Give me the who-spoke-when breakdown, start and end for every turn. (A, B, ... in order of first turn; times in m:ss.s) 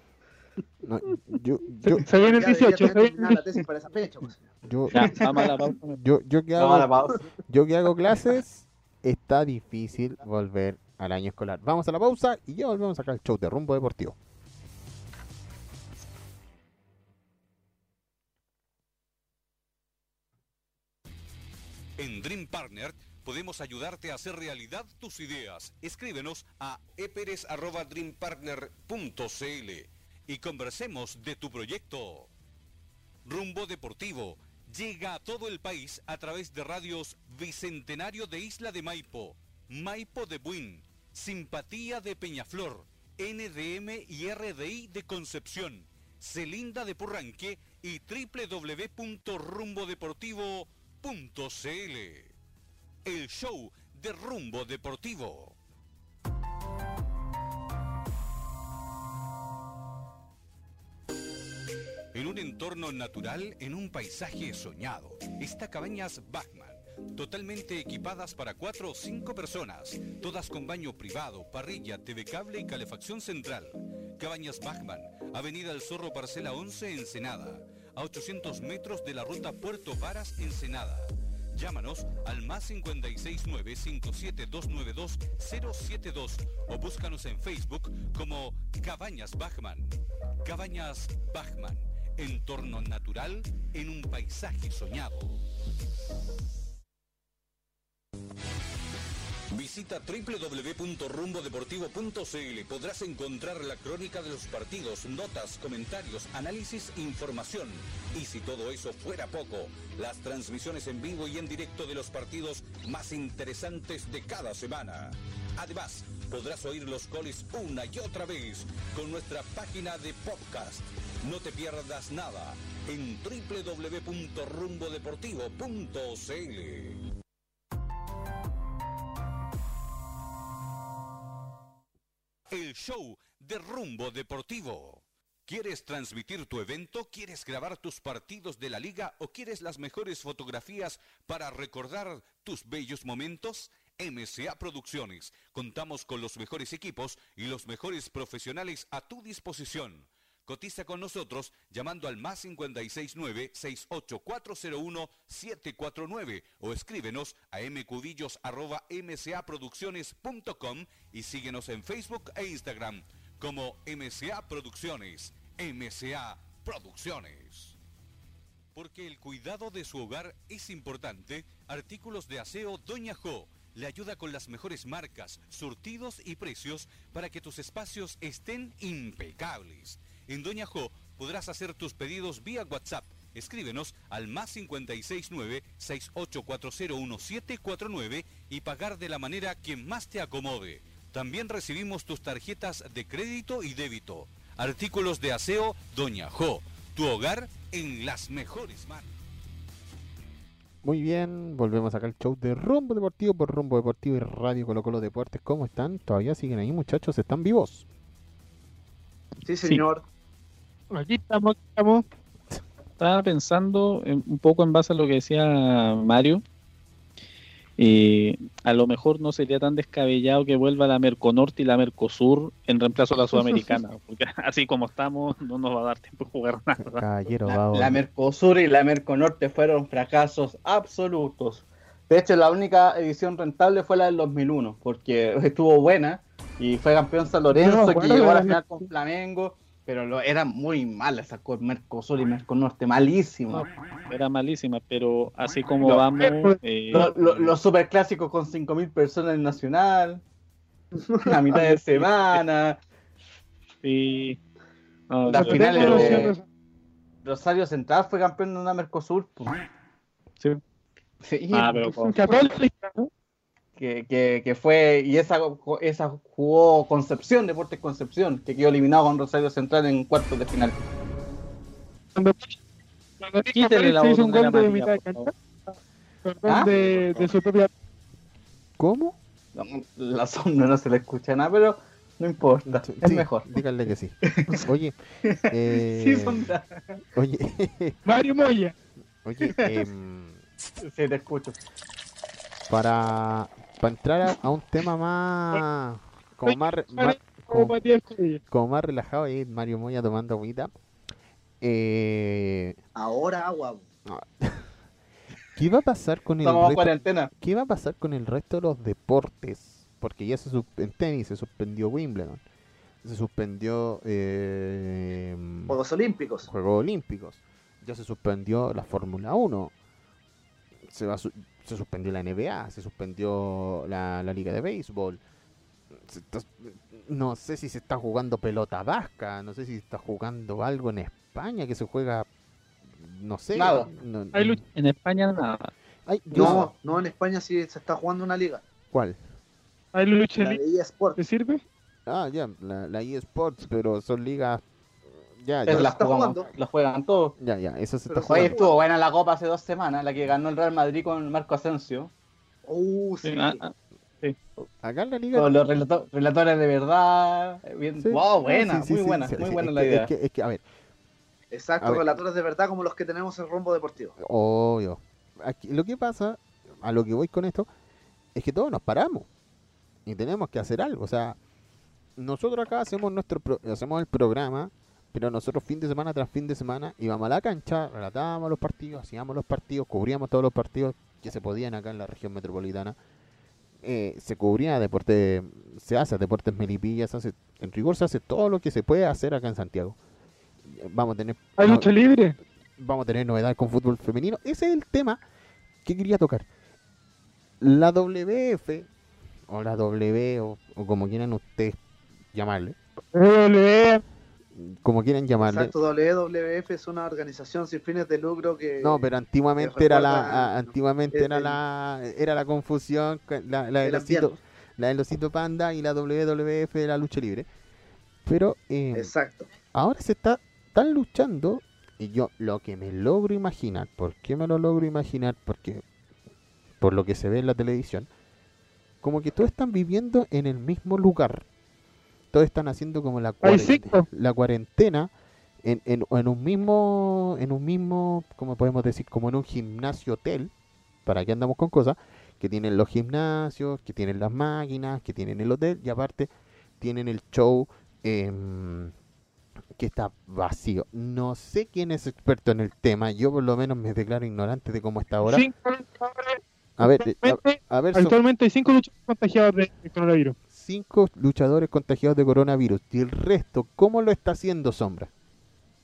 0:00.8-0:02.1 A
0:01.8-0:03.3 B
0:02.2-0:04.5 C
0:04.6-0:05.2 A
0:04.9-0:06.0 D
0:05.0-0:05.5 E
0:05.9-0:06.9 A
0:06.6-0:07.2 E
0:07.4-0:14.2 A
0:22.0-0:32.3 F
0:33.2-0:52.3 F
0:53.0-0:55.6 F
1:02.1-1:29.9 F
1:30.4-1:35.4 F
1:39.5-2:07.0 F
2:12.5-2:47.8 F
2:48.7-3:19.1 F
3:20.8-3:27.8 A
3:29.4-3:30.0 C
3:30.9-3:32.0 B
3:33.0-3:36.4 D
3:37.8-3:47.0 D
3:46.8-3:48.0 A
3:47.5-4:03.6 E
3:57.5-3:58.9 B
4:03.5-4:07.6 D
4:06.3-4:06.5 B
4:06.9-4:10.2 E
4:11.1-4:11.4 C
4:11.2-4:12.8 E
4:13.8-4:14.4 D
4:15.1-4:16.3 D
4:15.3-4:16.3 E
4:15.4-4:16.4 B
4:17.2-4:19.5 E
4:21.2-4:22.1 E
4:21.5-4:22.1 D
4:22.1-4:23.1 B
4:23.8-4:30.8 E
4:32.1-4:32.6 B
4:33.2-4:35.7 B
4:33.5-4:35.3 D
4:36.2-4:37.7 B
4:38.8-4:39.2 A
4:39.6-4:43.4 E
4:42.8-4:45.0 A
4:44.2-4:44.6 E
4:45.2-4:47.0 E
4:45.5-4:46.5 A
4:47.1-4:48.0 A
4:48.1-4:48.7 B
4:49.2-4:50.4 A
4:49.4-4:49.7 E
4:50.8-4:51.6 E
4:52.7-4:57.8 A
4:56.4-4:58.4 B
4:58.5-5:00.7 A
5:01.6-5:02.8 A
5:03.0-5:03.8 C
5:04.0-5:04.7 A
5:05.6-5:12.4 A
5:06.4-5:07.3 E
5:13.0-5:15.8 A
5:15.7-5:16.5 C
5:16.4-5:19.7 A
5:20.9-5:25.2 A
5:25.9-5:32.3 A
5:32.9-5:34.6 A
5:33.6-5:33.9 E
5:34.3-5:34.6 B
5:34.7-5:35.7 D
5:36.1-5:36.7 A
5:36.3-5:36.6 E
5:36.3-5:38.6 C
5:38.9-5:39.2 A
5:39.9-5:40.6 B
5:40.4-5:41.2 C
5:41.2-5:41.6 B
5:42.1-5:44.6 A
5:45.3-5:45.9 A
5:45.6-5:47.4 E
5:45.7-5:46.5 C
5:47.4-5:48.6 A
5:48.1-5:48.8 C
5:48.3-5:52.1 E
5:52.6-5:53.6 C
5:53.2-5:54.4 D
5:54.8-5:55.5 A
5:55.3-6:00.1 E
5:58.0-6:00.6 A
6:01.5-6:04.1 C
6:01.8-6:02.1 A
6:04.2-6:07.7 A
6:08.4-6:09.3 A
6:10.1-6:11.4 A
6:12.2-6:23.0 A
6:23.8-6:30.0 A
6:30.6-6:31.9 A
6:31.6-6:32.4 B
6:32.8-6:35.2 A
6:35.8-6:36.4 A
6:37.6-6:38.9 A
6:39.5-6:41.8 A
6:42.3-6:42.8 A
6:43.1-6:44.0 B
6:44.6-6:45.7 A
6:45.4-6:49.0 C
6:48.8-6:57.5 A
6:49.6-6:51.6 C
6:53.8-6:54.3 C
6:58.2-6:59.1 A
6:58.9-6:59.5 C
6:59.7-7:05.8 A
7:06.8-7:08.1 A
7:09.0-7:11.4 A
7:12.3-7:15.1 A
7:13.4-7:14.1 B
7:15.6-7:20.5 A
7:21.0-7:28.9 A
7:29.7-7:35.4 A
7:35.2-7:40.4 B
7:36.8-7:38.2 A
7:40.5-7:45.1 A